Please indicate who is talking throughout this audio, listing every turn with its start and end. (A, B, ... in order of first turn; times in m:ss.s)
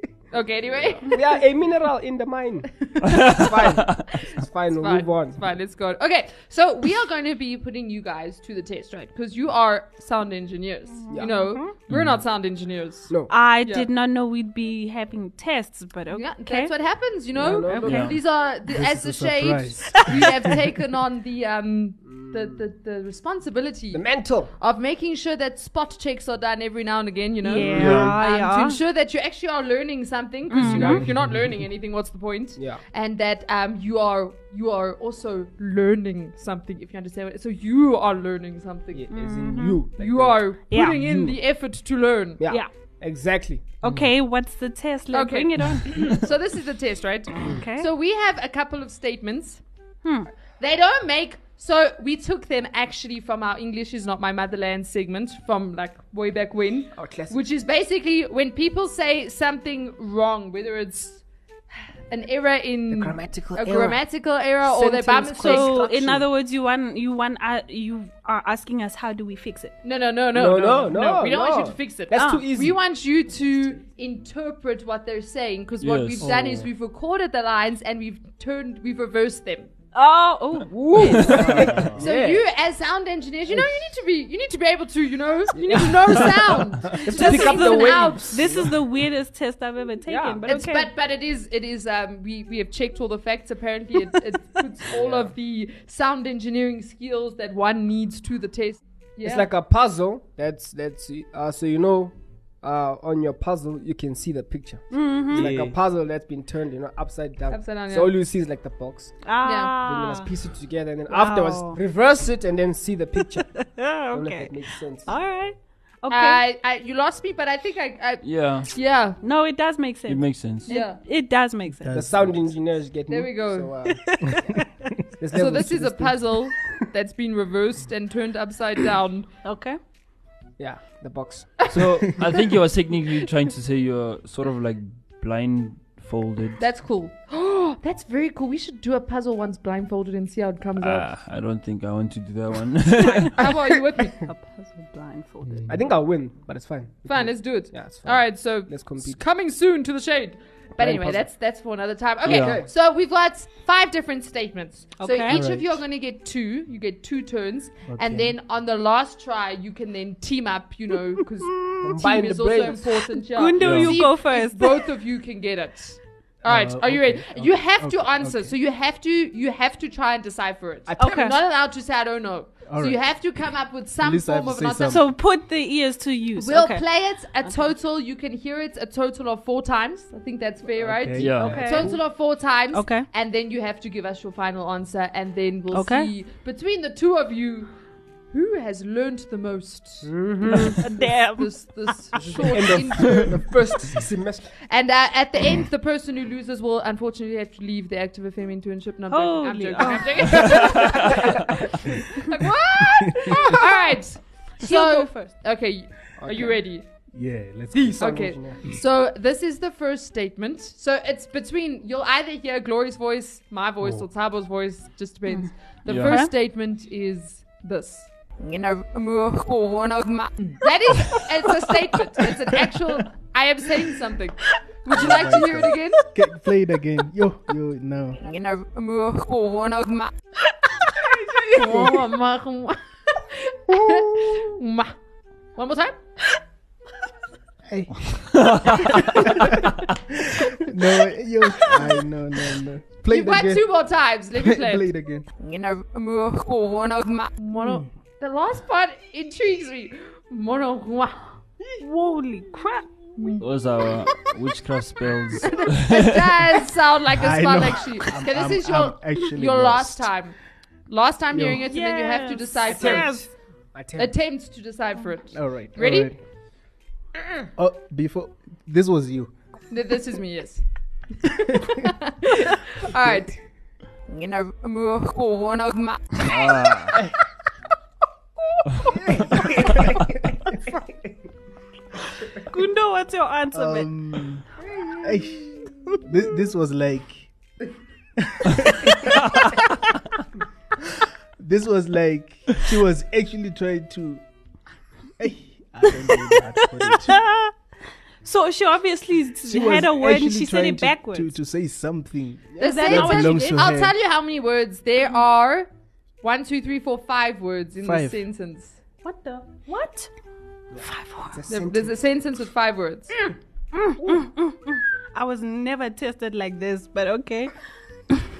0:00.3-0:01.2 A
0:01.0-0:05.4 B
0:03.0-0:03.7 C
0:03.1-0:03.4 A
0:04.1-0:13.1 A
0:11.1-0:11.4 B
0:11.2-0:11.7 D
0:11.9-0:12.2 C
0:13.3-0:16.7 D
0:13.6-0:13.9 A
0:16.1-0:39.1 A
0:17.3-0:18.2 B
0:17.6-0:18.1 D
0:17.8-0:18.1 C
0:18.6-0:20.6 E
0:22.0-0:22.6 B
0:23.9-0:24.5 B
0:27.4-0:28.8 D
0:27.6-0:28.2 E
0:30.5-0:31.0 D
0:30.6-0:31.0 B
0:31.0-0:31.4 E
0:32.6-0:32.8 B
0:38.9-0:41.4 B
0:39.1-0:39.8 D
0:40.0-0:42.4 A
0:40.7-0:41.0 D
0:42.4-0:43.9 B
0:43.8-0:46.3 D
0:45.1-0:49.6 A
0:47.4-0:47.9 D
0:50.0-0:50.3 D
0:50.6-1:01.2 A
0:56.9-0:57.4 B
1:02.1-1:06.0 A
1:02.9-1:04.0 B
1:04.6-1:06.2 B
1:05.4-1:09.8 D
1:09.8-1:19.7 A
1:10.3-1:12.8 B
1:12.1-1:12.4 D
1:15.8-1:16.3 C
1:16.2-1:16.7 E
1:19.9-1:21.3 D
1:20.7-1:22.4 B
1:20.9-1:28.4 A
1:21.4-1:22.1 E
1:23.5-1:23.8 B
1:25.5-1:26.3 B
1:27.0-1:28.8 B
1:27.1-1:30.9 D
1:30.0-1:30.4 B
1:30.4-1:39.5 A
1:34.9-1:35.3 B
1:39.2-1:49.2 B
1:44.9-1:45.5 D
1:45.3-1:45.8 E
1:47.5-1:48.1 A
1:49.2-1:50.3 D
1:49.4-1:49.7 A
1:49.8-1:53.5 B
1:51.1-1:51.8 D
1:53.5-1:56.4 D
1:54.1-1:55.1 B
1:56.1-1:59.2 A
1:58.2-1:58.7 C
1:59.2-2:02.0 D
2:00.1-2:00.7 C
2:00.7-2:01.0 A
2:01.8-2:02.5 E
2:01.9-2:04.5 B
2:03.1-2:03.7 A
2:04.0-2:04.9 D
2:05.2-2:06.3 B
2:05.3-2:09.3 A
2:09.4-2:09.8 D
2:10.6-2:11.7 B
2:11.6-2:12.3 A
2:11.7-2:16.6 C
2:16.6-2:21.1 A
2:20.8-2:23.4 C
2:23.3-2:24.1 A
2:24.2-2:25.7 D
2:25.4-2:25.8 E
2:25.7-2:29.2 B
2:27.1-2:55.0 A
2:30.8-2:31.3 B
2:32.2-2:32.6 C
2:32.2-2:32.7 B
2:35.0-2:35.4 D
2:35.3-2:35.8 E
2:37.9-2:38.4 E
2:41.8-2:42.9 B
2:43.3-2:44.9 D
2:43.6-2:43.9 C
2:46.4-2:48.5 E
2:50.9-2:51.2 B
2:51.0-2:51.4 D
2:52.7-2:53.0 E
2:54.0-2:55.0 E
2:54.8-2:56.8 D
2:56.4-3:07.7 A
3:00.8-3:01.6 E
3:01.2-3:01.7 C
3:01.4-3:02.0 D
3:01.4-3:02.0 B
3:02.7-3:03.1 D
3:05.7-3:06.1 D
3:08.3-3:13.4 A
3:10.0-3:10.8 B
3:10.8-3:12.5 D
3:12.5-3:14.5 B
3:14.7-3:26.9 A
3:19.1-3:20.8 D
3:20.4-3:21.4 B
3:24.6-3:25.5 D
3:26.2-3:26.6 B
3:27.1-3:28.1 E
3:27.7-3:28.6 B
3:28.0-3:46.0 A
3:33.8-3:34.0 E
3:35.3-3:36.3 D
3:35.8-3:36.2 C
3:44.9-3:48.2 E
3:45.1-3:45.4 D
3:48.2-3:50.1 A
3:51.0-3:52.0 B
3:51.5-3:54.9 A
3:55.6-3:56.0 A
3:57.6-3:58.5 E
3:58.4-3:59.2 C
3:59.1-3:59.6 E
4:00.2-4:03.6 E
4:03.1-4:11.3 A
4:04.4-4:05.3 E
4:11.8-4:13.3 D
4:13.2-4:13.4 A
4:13.4-4:16.3 C
4:15.4-4:20.4 A
4:17.1-4:20.1 E
4:20.9-4:23.2 A
4:21.3-4:21.6 E
4:21.6-4:23.2 D
4:22.7-4:24.1 B
4:24.0-4:26.1 A
4:25.3-4:26.2 E
4:27.6-4:29.3 E
4:29.7-4:30.6 A
4:31.2-4:33.4 A
4:34.1-4:36.1 A
4:36.2-4:37.0 C
4:38.8-4:39.9 B
4:42.3-4:43.9 D
4:43.5-4:44.4 E
4:44.8-4:45.6 B
4:45.0-4:47.3 E
4:48.2-4:49.3 E
4:51.4-4:54.2 E
4:55.2-4:57.2 E
4:56.1-4:57.5 D
4:58.2-5:01.3 D
4:59.4-5:03.9 E
5:02.6-5:02.8 B
5:02.6-5:05.7 A
5:02.6-5:03.7 D
5:06.2-5:08.8 A
5:07.8-5:08.2 E
5:09.0-5:10.1 D
5:10.7-5:12.0 B
5:10.8-5:11.4 D
5:11.5-5:13.1 A
5:13.7-5:17.5 D
5:14.0-5:14.2 B